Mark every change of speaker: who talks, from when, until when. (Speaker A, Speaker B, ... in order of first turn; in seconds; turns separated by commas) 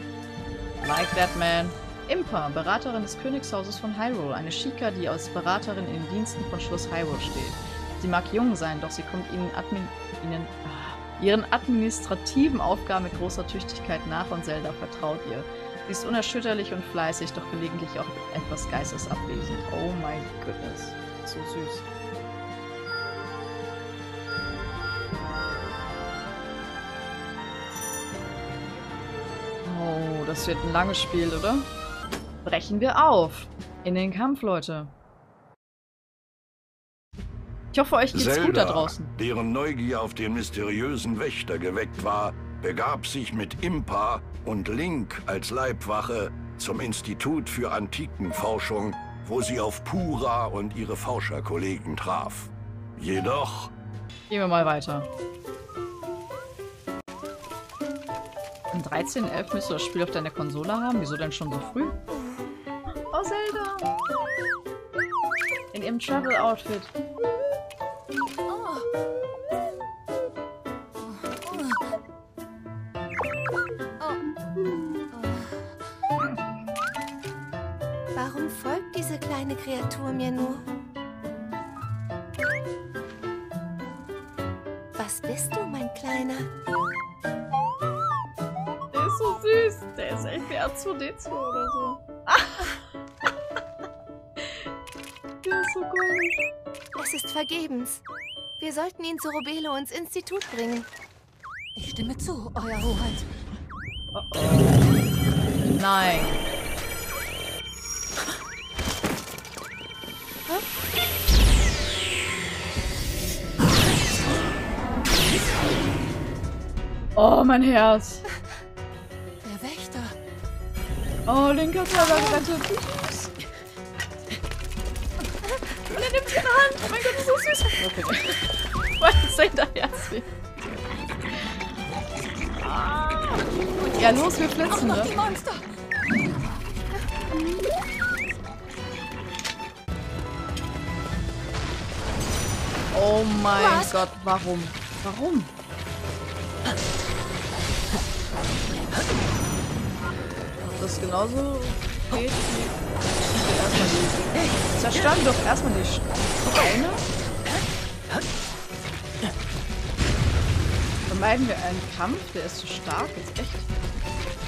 Speaker A: 0.8-21.8, Speaker A: 29.6-31.7, Speaker A: 32.4-34.9, Speaker A: 37.7-39.1, Speaker B: 38.1-53.7, Speaker A: 54.3-55.1, Speaker A: 58.7-62.0, Speaker A: 63.1-63.9, Speaker A: 65.7-66.9, Speaker C: 68.5-68.8, Speaker C: 71.0-71.8, Speaker C: 75.1-75.7, Speaker D: 78.1-80.6, Speaker D: 84.9-86.5, Speaker A: 88.9-92.7, Speaker A: 95.4-96.4, Speaker D: 96.9-98.0, Speaker D: 98.6-100.8, Speaker C: 101.8-103.2, Speaker A: 104.1-104.8, Speaker A: 105.7-106.4, Speaker A: 117.2-118.2, Speaker C: 119.4-120.2, Speaker A: 121.3-123.3, Speaker C: 122.1-122.4, Speaker A: 125.9-128.4, Speaker A: 129.0-130.2, Speaker A: 132.6-133.4, Speaker C: 133.5-136.6, Speaker A: 133.9-135.1, Speaker A: 142.9-145.5, Speaker C: 143.5-144.0, Speaker A: 150.6-152.8, Speaker A: 153.3-157.0, Speaker A: 161.1-163.7